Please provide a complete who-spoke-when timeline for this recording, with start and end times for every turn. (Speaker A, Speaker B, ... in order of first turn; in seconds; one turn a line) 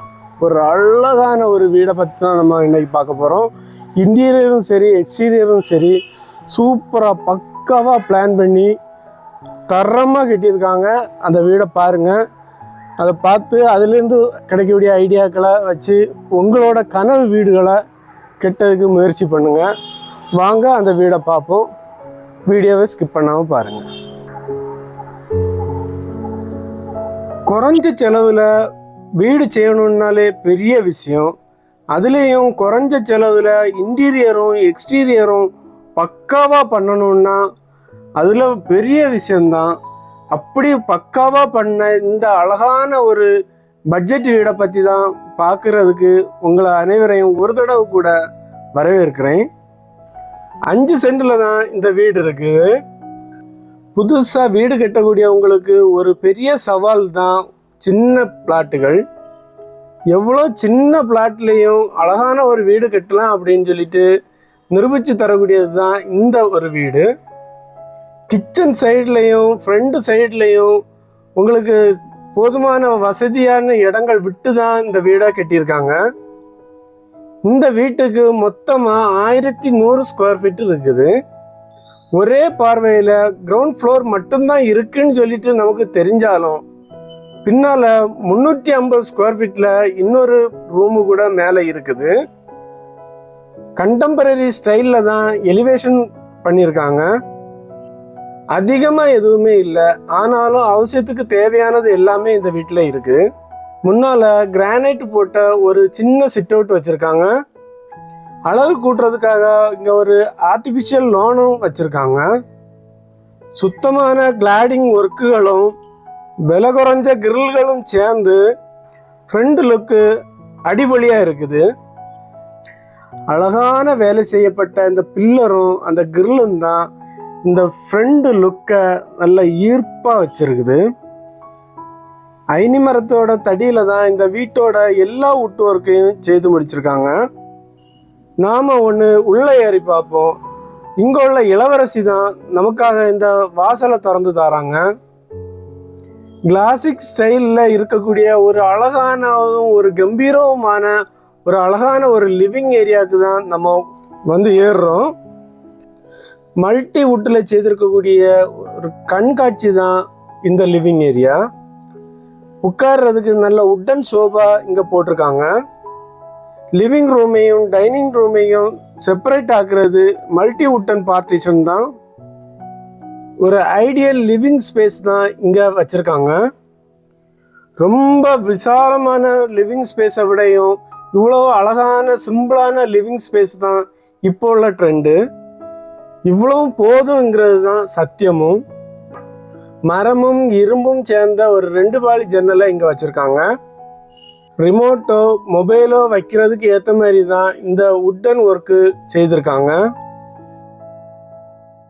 Speaker A: 0.4-3.5
Speaker A: 4.0-6.0
Speaker A: 6.5-8.7
Speaker A: 9.7-12.2
Speaker A: 13.0-17.8
Speaker A: 18.4-19.7
Speaker A: 20.4-21.7
Speaker A: 22.5-23.9
Speaker A: 27.5-28.5
Speaker A: 29.2-31.3
Speaker A: 31.9-37.4
Speaker A: 38.2-39.7
Speaker A: 40.3-43.3
Speaker A: 43.9-48.1
Speaker A: 48.8-49.5
Speaker A: 50.7-52.7
Speaker A: 54.0-59.0
Speaker A: 60.1-64.1
Speaker A: 64.7-67.1
Speaker A: 68.3-70.7
Speaker A: 71.4-71.8
Speaker A: 72.3-76.0
Speaker A: 77.5-81.1
Speaker A: 82.2-86.6
Speaker A: 87.5-92.1
Speaker A: 93.8-97.1
Speaker A: 98.5-103.2
Speaker A: 103.9-107.3
Speaker A: 108.5-112.2
Speaker A: 113.6-115.7
Speaker A: 116.5-118.4
Speaker A: 119.3-120.0
Speaker A: 120.7-121.6
Speaker A: 123.3-126.8
Speaker A: 127.5-130.8
Speaker A: 132.6-137.1
Speaker A: 138.4-140.3
Speaker A: 141.0-144.8
Speaker A: 146.5-150.9
Speaker A: 151.4-153.8
Speaker A: 154.3-155.1
Speaker A: 156.6-159.9
Speaker A: 160.5-161.4
Speaker A: 162.6-165.5
Speaker A: 166.8-171.8
Speaker A: 173.4-176.3
Speaker A: 177.8-185.2
Speaker A: 186.3-188.6
Speaker A: 189.9-193.4
Speaker A: 194.6-199.8